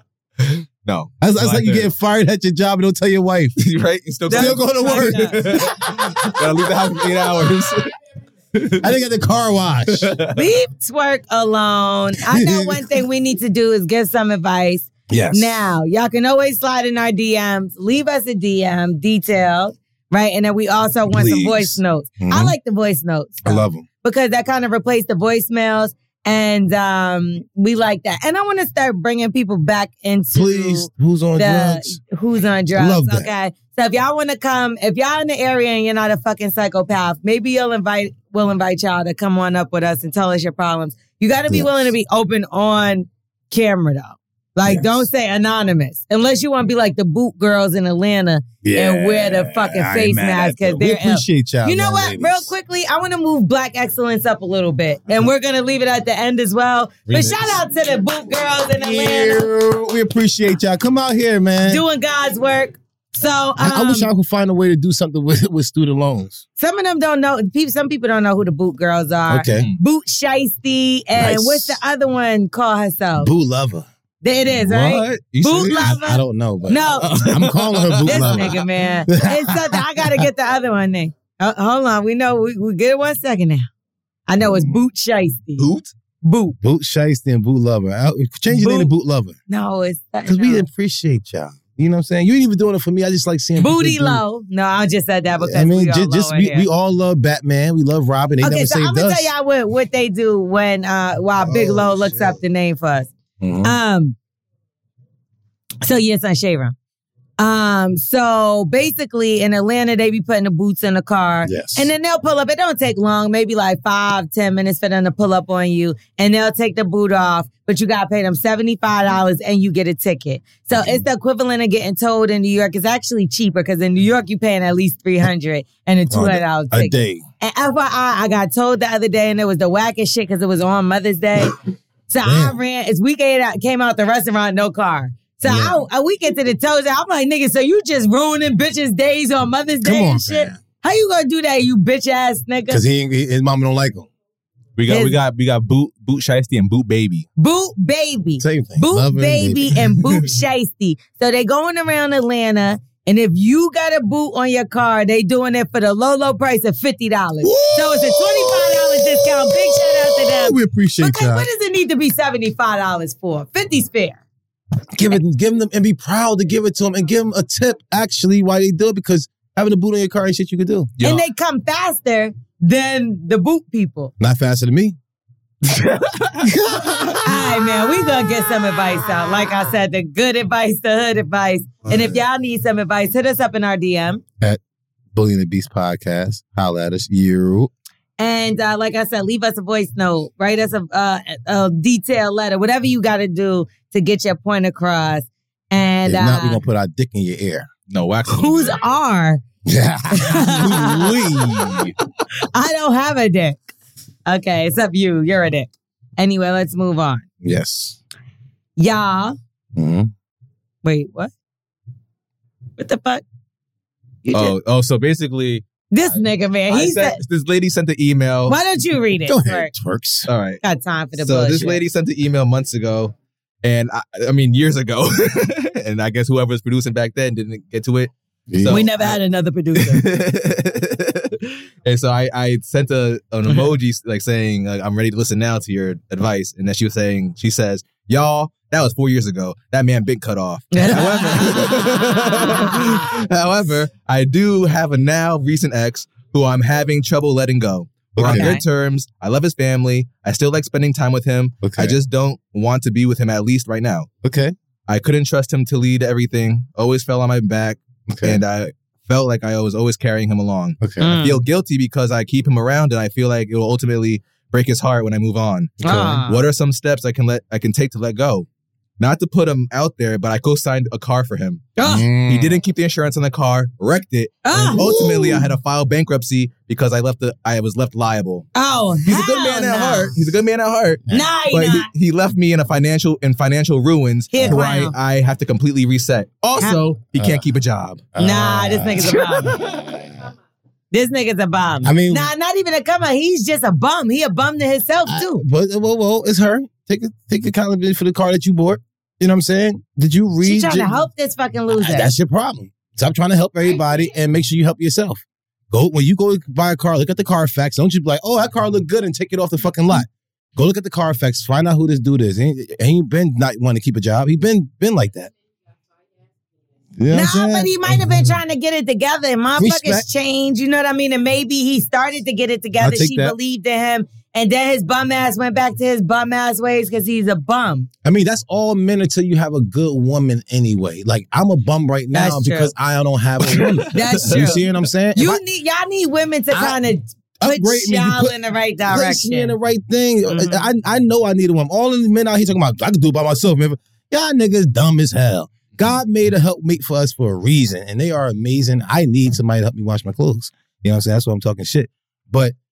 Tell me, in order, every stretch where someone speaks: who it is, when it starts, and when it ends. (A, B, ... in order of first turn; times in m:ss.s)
0:00.4-0:01.9 A
0:01.2-0:03.6 B
0:03.6-0:07.9 A
0:04.3-0:05.4 C
0:04.3-0:07.5 B
0:08.5-0:08.9 A
0:08.8-0:10.1 B
0:09.9-0:10.4 A
0:10.3-0:59.4 C
0:12.3-0:12.8 B
0:15.1-0:15.5 B
0:21.1-0:22.5 B
0:23.4-0:23.8 B
0:30.3-0:32.0 B
0:32.7-0:33.3 B
0:41.5-0:41.9 B
0:44.6-0:45.0 B
0:48.6-0:52.5 B
0:57.1-0:57.5 B
0:58.8-1:01.8 B
1:01.6-1:04.1 C
1:03.6-1:06.4 B
1:06.6-1:13.3 C
1:09.3-1:09.7 B
1:11.2-1:11.8 B
1:13.2-1:13.9 B
1:14.2-1:17.1 C
1:14.7-1:16.0 A
1:15.8-1:20.2 B
1:17.0-1:18.6 A
1:18.0-1:23.7 C
1:24.3-1:25.7 C
1:24.4-1:24.8 B
1:25.6-1:25.9 A
1:26.2-1:26.6 C
1:26.6-1:29.4 B
1:28.5-1:28.9 C
1:29.5-1:30.6 C
1:30.2-1:34.2 B
1:33.6-1:36.7 C
1:35.4-1:39.3 B
1:38.4-1:43.1 C
1:41.4-1:42.4 B
1:43.4-1:43.8 B
1:43.6-1:44.2 C
1:45.8-1:46.7 C
1:47.4-2:11.6 C
1:51.4-1:51.9 B
2:00.7-2:01.0 B
2:06.1-2:07.2 B
2:12.1-2:22.8 C
2:12.2-2:12.6 B
2:15.4-2:15.8 B
2:19.8-2:20.6 B
2:22.7-2:24.1 B
2:24.8-2:27.2 A
2:24.9-2:25.2 C
2:27.4-2:44.2 C
2:28.4-2:29.8 B
2:37.4-2:41.5 B
2:44.9-2:50.9 B
2:51.0-2:51.2 A
2:51.0-2:54.1 C
2:54.2-2:55.0 B
2:55.6-2:57.2 A
2:56.4-2:57.5 B
2:57.2-3:04.2 C
3:01.9-3:02.2 A
3:05.1-3:07.7 B
3:08.2-3:16.6 C
3:16.0-3:17.7 B
3:17.9-3:18.8 A
3:18.3-3:19.4 C
3:19.6-3:21.8 B
3:20.1-3:21.0 C
3:20.8-3:21.9 A
3:22.3-3:23.7 C
3:24.2-3:27.2 C
3:27.4-3:28.0 B
3:28.8-3:29.4 C
3:29.8-3:30.1 B
3:30.8-3:31.3 C
3:32.8-3:33.2 C
3:34.2-3:34.5 C
3:34.3-3:38.6 A
3:35.9-3:37.2 C
3:38.5-3:39.7 C
3:39.2-3:40.3 B
3:40.3-3:40.6 A
3:40.6-3:41.8 C
3:41.2-3:49.2 A
3:48.5-3:48.8 B
3:48.7-3:50.0 C
3:49.7-4:14.1 A
4:00.7-4:03.0 C
4:08.2-4:08.5 B
4:08.3-4:08.6 C
4:11.6-4:12.0 B
4:14.2-4:14.5 B
4:14.9-4:28.4 A
4:18.1-4:18.4 B
4:20.8-4:21.2 B
4:21.0-4:21.4 C
4:25.8-4:26.2 B
4:25.8-4:26.4 C
4:29.0-4:31.7 A
4:31.8-4:32.1 C
4:31.8-4:32.6 B
4:32.2-4:38.4 A
4:34.4-4:34.9 C
4:34.7-4:35.5 B
4:38.5-4:40.2 C
4:39.0-4:48.1 A
4:41.1-4:41.9 C
4:44.3-4:44.9 C
4:47.1-4:47.4 B
4:48.1-4:50.1 B
4:48.2-4:49.6 C
4:49.0-4:49.7 A
4:50.9-4:55.4 C
4:51.8-4:52.3 B
4:55.1-5:00.9 B
5:00.4-5:02.1 C
5:01.7-5:15.3 B
5:17.0-5:18.4 B
5:17.1-5:27.9 C
5:19.6-5:20.0 B
5:22.8-5:23.4 B
5:28.0-5:35.4 B
5:32.1-5:32.7 C
5:33.5-5:34.7 A
5:33.9-5:34.6 C
5:35.2-5:39.5 C
5:36.5-5:36.8 B
5:37.4-5:38.3 B
5:38.9-5:52.5 B
5:40.3-5:40.6 C